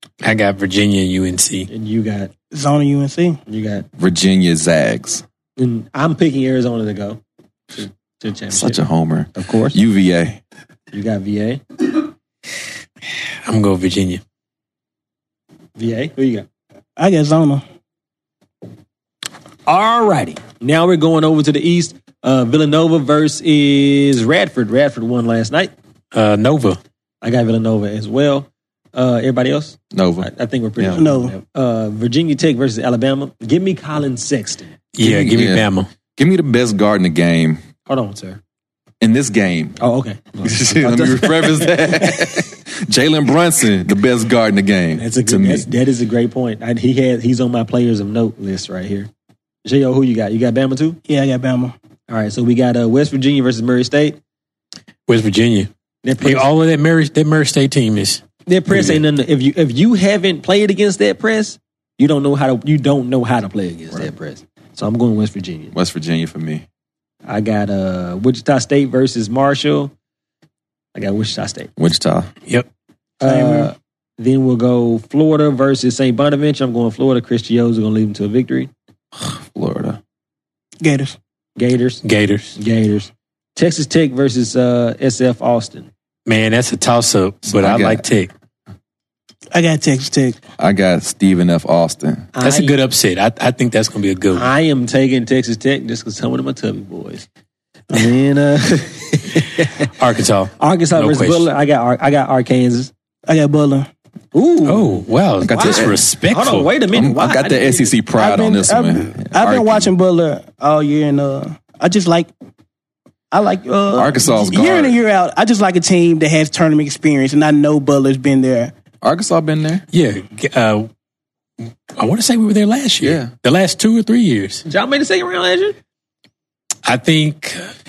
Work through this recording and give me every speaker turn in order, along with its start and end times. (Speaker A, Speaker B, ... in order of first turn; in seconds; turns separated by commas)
Speaker A: 0.2-1.7, Speaker B: 1.7-2.3, Speaker C: 2.5-3.4, Speaker B: 3.5-3.9, Speaker D: 4.0-5.2, Speaker B: 5.6-7.2, Speaker B: 7.7-8.8, Speaker D: 8.5-10.4, Speaker B: 9.3-9.8, Speaker B: 10.9-11.6, Speaker A: 13.4-14.2, Speaker B: 15.8-16.5, Speaker C: 17.0-17.6, Speaker B: 19.7-25.7, Speaker A: 26.1-26.8, Speaker B: 27.2-34.8, Speaker D: 29.9-31.0, Speaker C: 31.0-31.4, Speaker A: 35.0-35.9, Speaker D: 35.0-37.6, Speaker B: 37.9-38.4, Speaker D: 39.0-39.8, Speaker B: 39.8-42.3, Speaker D: 40.4-45.7, Speaker B: 45.0-49.1, Speaker B: 49.6-51.0, Speaker C: 51.1-51.8, Speaker B: 52.1-54.2, Speaker A: 55.1-55.7, Speaker B: 56.0-56.5, Speaker A: 56.2-59.0, Speaker B: 58.5-65.7, Speaker D: 65.7-66.7, Speaker B: 67.3-69.9, Speaker B: 70.9-71.7, Speaker D: 71.8-72.3, Speaker B: 73.2-78.7, Speaker C: 73.2-73.7, Speaker D: 79.2-80.0, Speaker C: 80.8-81.2, Speaker B: 81.6-82.0, Speaker A: 82.0-82.6, Speaker B: 82.6-85.9, Speaker A: 86.3-88.3, Speaker D: 87.5-88.0, Speaker C: 89.5-90.4, Speaker D: 90.6-92.3, Speaker B: 92.3-92.8, Speaker A: 92.4-94.5, Speaker B: 94.3-97.3, Speaker B: 97.9-99.9, Speaker A: 99.9-101.5, Speaker B: 100.6-102.9, Speaker C: 103.3-103.9, Speaker B: 104.3-105.0, Speaker A: 104.7-106.7, Speaker D: 105.4-106.1, Speaker B: 105.5-108.0, Speaker D: 106.9-109.9, Speaker C: 108.2-112.3, Speaker C: 113.3-118.7, Speaker D: 113.9-115.0, Speaker D: 119.0-119.9, Speaker A: 119.9-120.9, Speaker A: 122.0-124.6, Speaker D: 123.0-123.3, Speaker B: 124.7-125.8, Speaker A: 126.8-127.6